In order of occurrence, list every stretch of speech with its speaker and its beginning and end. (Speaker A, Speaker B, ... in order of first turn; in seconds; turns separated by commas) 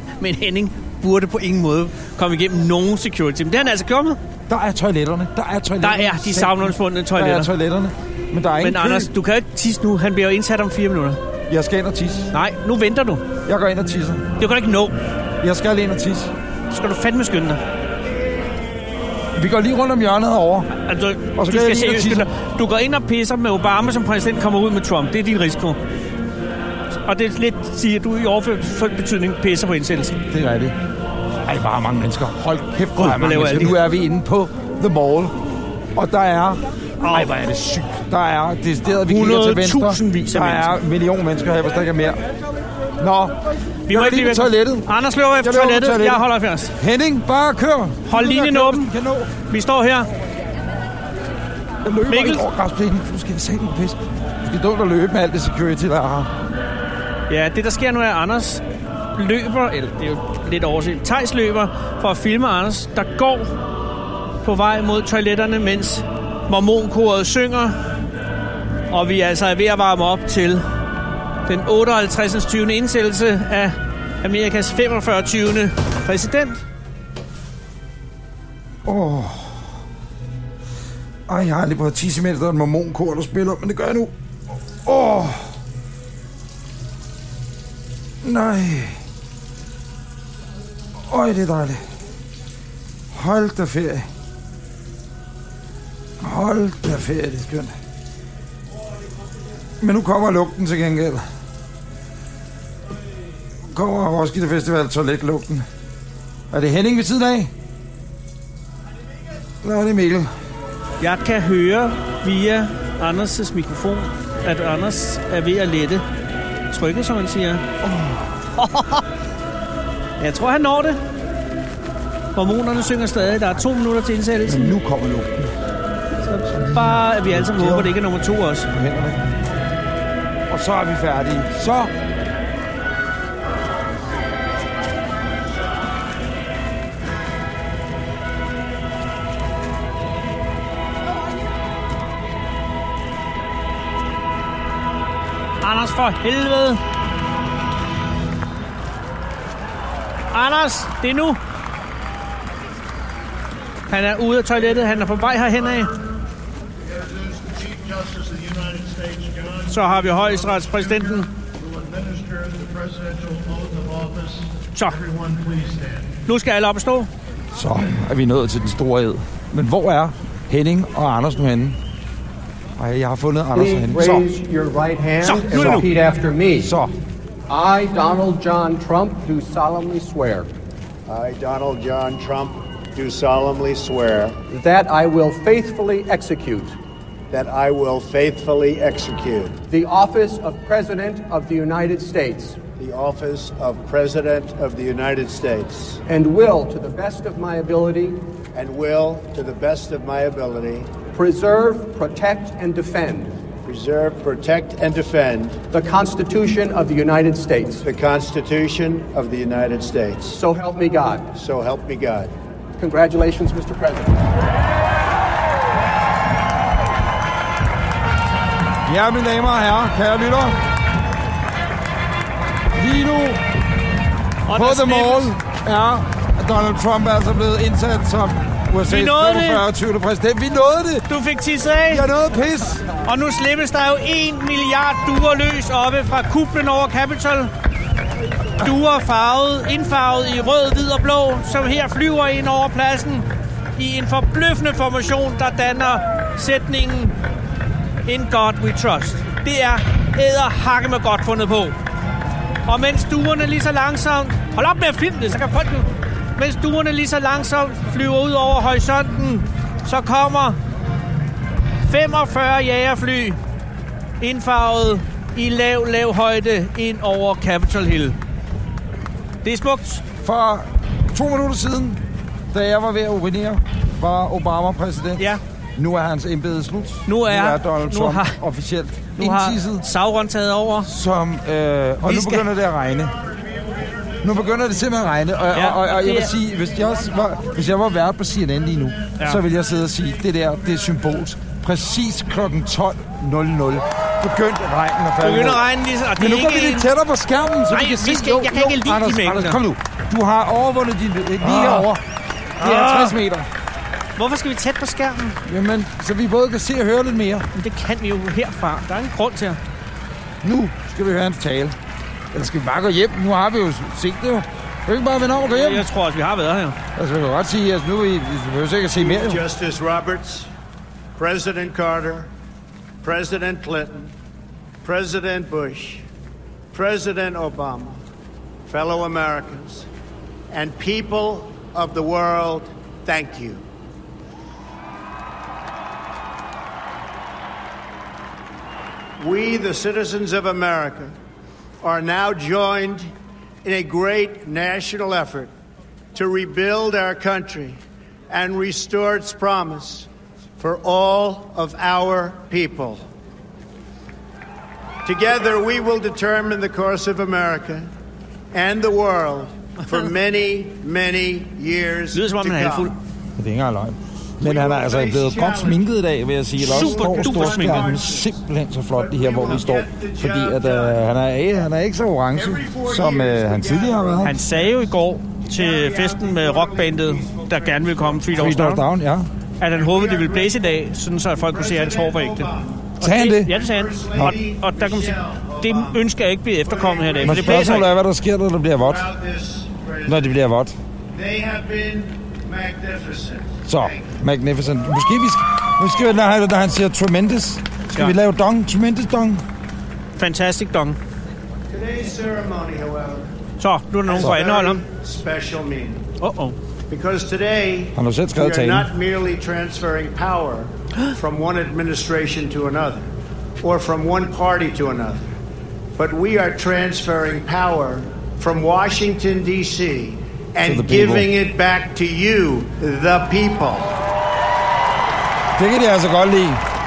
Speaker A: 0.2-4.2, Speaker B: 4.5-9.1, Speaker A: 5.8-7.5, Speaker A: 8.6-11.2, Speaker B: 11.5-12.3, Speaker A: 12.3-13.2, Speaker B: 13.4-14.2, Speaker A: 14.4-14.9, Speaker B: 15.4-16.3, Speaker A: 16.7-17.6, Speaker B: 19.3-20.7, Speaker A: 20.7-25.8, Speaker B: 21.3-22.3, Speaker A: 27.1-30.2, Speaker B: 30.3-30.8, Speaker B: 31.4-35.3, Speaker A: 33.0-33.8, Speaker B: 35.9-42.2, Speaker A: 37.0-37.3, Speaker A: 39.0-40.7, Speaker B: 43.0-43.4, Speaker A: 43.9-46.7, Speaker B: 43.9-49.3, Speaker A: 48.1-48.9, Speaker A: 49.5-50.1, Speaker B: 51.8-56.3, Speaker A: 52.1-52.4, Speaker A: 57.3-58.6, Speaker A: 59.1-63.5, Speaker A: 64.4-67.8, Speaker A: 68.9-70.6, Speaker A: 71.5-76.6, Speaker B: 78.8-79.6, Speaker B: 81.3-84.1, Speaker B: 84.7-85.5, Speaker B: 88.2-89.0, Speaker B: 91.0-91.8, Speaker B: 93.1-94.1, Speaker B: 96.2-97.7, Speaker B: 99.8-101.2, Speaker B: 103.7-105.7, Speaker B: 106.5-107.5, Speaker B: 109.6-110.3, Speaker A: 111.0-116.0, Speaker A: 116.7-117.7, Speaker B: 117.8-118.3, Speaker A: 118.6-119.0, Speaker A: 120.2-121.0, Speaker A: 122.3-124.7, Speaker B: 124.5-125.5, Speaker A: 126.2-128.7, Speaker B: 126.5-128.0, Speaker B: 128.7-129.2, Speaker B: 130.5-131.9, Speaker A: 145.6-146.8, Speaker A: 150.3-151.4, Speaker A: 153.9-155.9, Speaker C: 156.9-159.7, Speaker A: 159.7-161.3, Speaker C: 161.6-166.2, Speaker A: 164.7-165.0, Speaker A: 166.2-167.1, Speaker B: 167.5-171.8, Speaker B: 172.8-174.3, Speaker D: 173.5-176.8, Speaker A: 175.2-175.9, Speaker B: 175.5-175.8, Speaker B: 176.6-176.9, Speaker D: 177.5-180.5, Speaker C: 181.1-184.4, Speaker D: 184.5-186.8, Speaker C: 187.3-189.6, Speaker D: 189.7-192.6, Speaker C: 192.8-196.0, Speaker D: 196.1-198.3, Speaker C: 198.5-201.0, Speaker D: 201.0-203.3, Speaker C: 203.7-205.7, Speaker D: 205.7-207.8, Speaker C: 207.8-210.3, Speaker D: 210.3-211.3, Speaker C: 211.3-212.3, Speaker D: 212.8-214.3, Speaker B: 218.8-220.6, Speaker B: 222.7-223.4, Speaker A: 224.5-225.3, Speaker B: 224.5-231.1, Speaker A: 228.8-229.6, Speaker A: 231.1-232.0, Speaker B: 231.9-232.8, Speaker A: 233.0-237.5, Speaker A: 238.6-247.2, Speaker A: 248.1-251.7, Speaker A: 252.7-260.6, Speaker A: 261.8-263.4, Speaker A: 264.2-268.1, Speaker A: 269.4-270.0, Speaker B: 270.2-279.8, Speaker A: 277.1-278.4, Speaker A: 279.1-280.9, Speaker B: 280.9-283.1, Speaker A: 282.0-282.5, Speaker B: 284.2-295.6, Speaker A: 285.5-286.3, Speaker A: 295.2-296.9, Speaker B: 296.1-302.0, Speaker A: 297.7-299.6, Speaker A: 301.4-301.9, Speaker A: 302.6-303.2, Speaker B: 302.6-303.5, Speaker A: 304.2-305.4, Speaker B: 305.4-307.5, Speaker A: 307.5-309.6, Speaker B: 310.4-311.7, Speaker B: 312.3-315.9, Speaker A: 315.5-316.8, Speaker B: 316.9-319.4, Speaker C: 318.9-320.5, Speaker C: 321.2-322.3, Speaker C: 323.0-324.1, Speaker C: 324.8-326.0, Speaker C: 326.7-328.0, Speaker C: 328.6-329.9, Speaker C: 330.5-333.6, Speaker C: 339.2-341.1, Speaker C: 341.8-343.1, Speaker C: 343.6-345.5, Speaker C: 346.1-353.0, Speaker C: 355.0-357.9, Speaker C: 358.5-362.9, Speaker A: 362.1-362.9, Speaker B: 363.4-374.4, Speaker C: 364.4-365.8, Speaker A: 366.6-367.9, Speaker C: 366.6-368.4, Speaker C: 368.9-371.0, Speaker C: 372.3-374.9, Speaker A: 374.2-378.9, Speaker C: 375.4-378.2, Speaker B: 378.3-379.3, Speaker A: 379.6-387.9, Speaker C: 379.7-380.8, Speaker C: 381.4-386.1, Speaker B: 383.0-383.5, Speaker C: 386.6-387.9, Speaker B: 387.2-389.1, Speaker C: 388.8-390.2, Speaker B: 390.1-390.7, Speaker C: 391.1-394.1, Speaker B: 393.6-399.4, Speaker A: 400.2-401.0, Speaker C: 401.7-403.3, Speaker A: 403.6-404.8, Speaker C: 404.0-406.1, Speaker A: 406.2-406.6, Speaker C: 406.9-413.1, Speaker B: 407.9-408.9, Speaker C: 413.6-415.3, Speaker C: 416.0-423.9, Speaker B: 420.6-421.3, Speaker B: 425.6-426.6